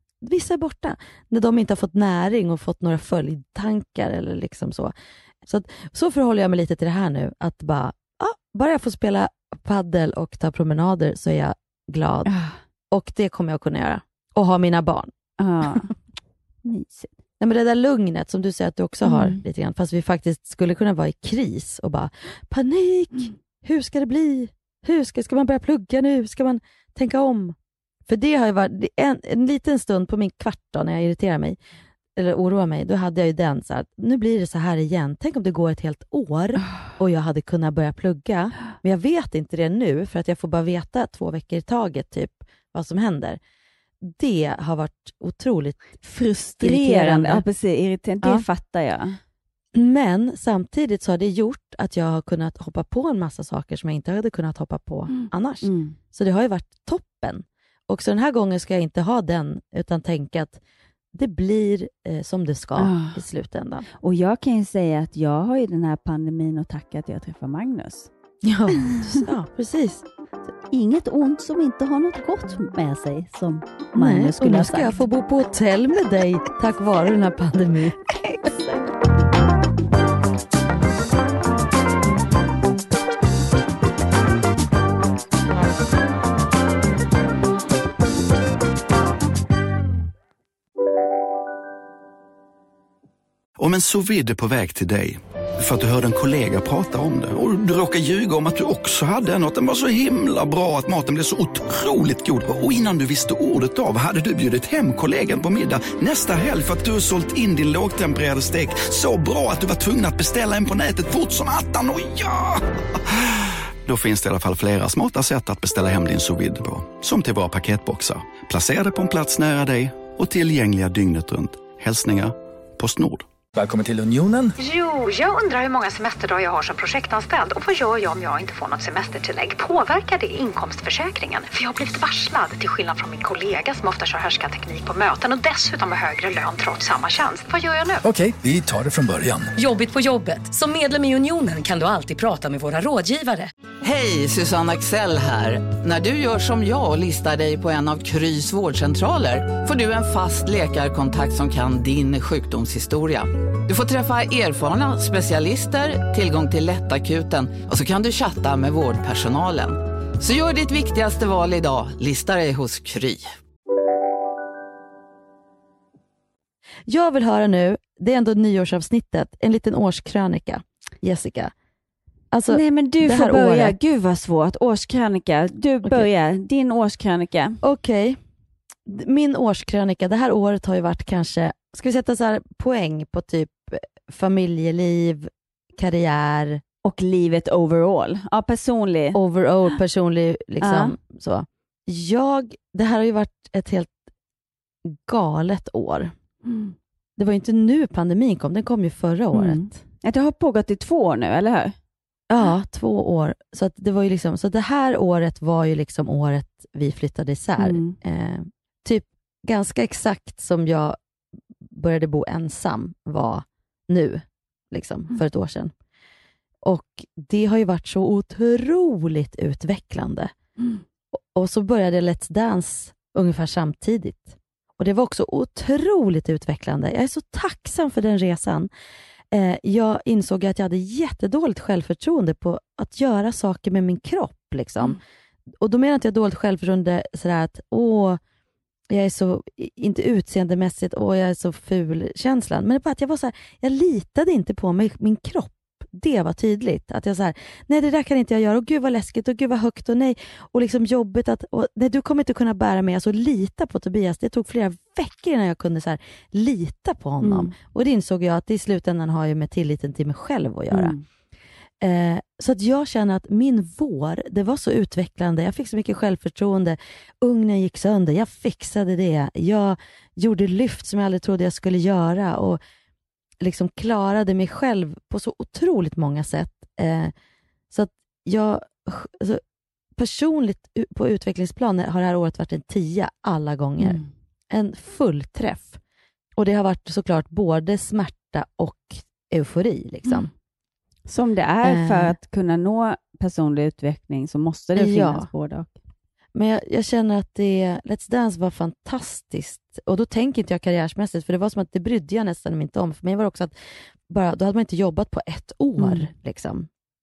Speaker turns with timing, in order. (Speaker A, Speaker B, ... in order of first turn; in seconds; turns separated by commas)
Speaker A: 0.2-12.3, Speaker B: 12.3-12.6, Speaker A: 12.9-15.1, Speaker B: 15.4-15.9, Speaker B: 16.6-17.1, Speaker A: 17.4-31.6, Speaker B: 19.0-19.4, Speaker A: 32.2-43.4, Speaker A: 44.0-45.9, Speaker B: 46.0-49.2, Speaker A: 46.6-47.5, Speaker A: 49.7-60.6, Speaker B: 55.1-56.0, Speaker A: 61.1-63.9, Speaker B: 62.8-63.2, Speaker B: 64.0-68.1, Speaker A: 68.4-70.1, Speaker B: 68.8-69.2, Speaker B: 70.7-74.9, Speaker A: 74.0-78.0, Speaker B: 78.2-78.8, Speaker C: 93.6-123.3, Speaker D: 123.6-124.5, Speaker E: 124.6-138.0, Speaker D: 138.2-139.5, Speaker F: 139.6-143.5, Speaker G: 143.8-163.2, Speaker A: 166.9-171.5, Speaker A: 172.3-173.8, Speaker B: 172.5-177.6, Speaker A: 177.6-178.2, Speaker A: 178.9-186.6, Speaker B: 186.8-189.2, Speaker A: 189.1-194.0, Speaker B: 190.6-190.9, Speaker A: 194.9-196.1, Speaker B: 196.4-196.8, Speaker A: 197.2-199.8, Speaker B: 199.3-201.8, Speaker A: 202.3-211.0, Speaker B: 207.6-208.0, Speaker A: 211.7-215.7, Speaker A: 216.6-220.3, Speaker A: 221.3-228.7, Speaker A: 229.3-235.0, Speaker A: 235.6-238.2, Speaker A: 238.9-260.9, Speaker B: 257.2-257.5, Speaker B: 260.7-261.0, Speaker A: 261.8-272.6, Speaker A: 273.4-277.1, Speaker A: 277.7-279.4, Speaker A: 280.0-284.0, Speaker B: 283.8-284.1, Speaker A: 284.5-285.8, Speaker A: 286.4-290.3, Speaker B: 291.1-295.8, Speaker A: 291.6-292.2, Speaker A: 294.8-295.3, Speaker A: 296.3-303.5, Speaker A: 304.1-306.7, Speaker B: 305.8-306.1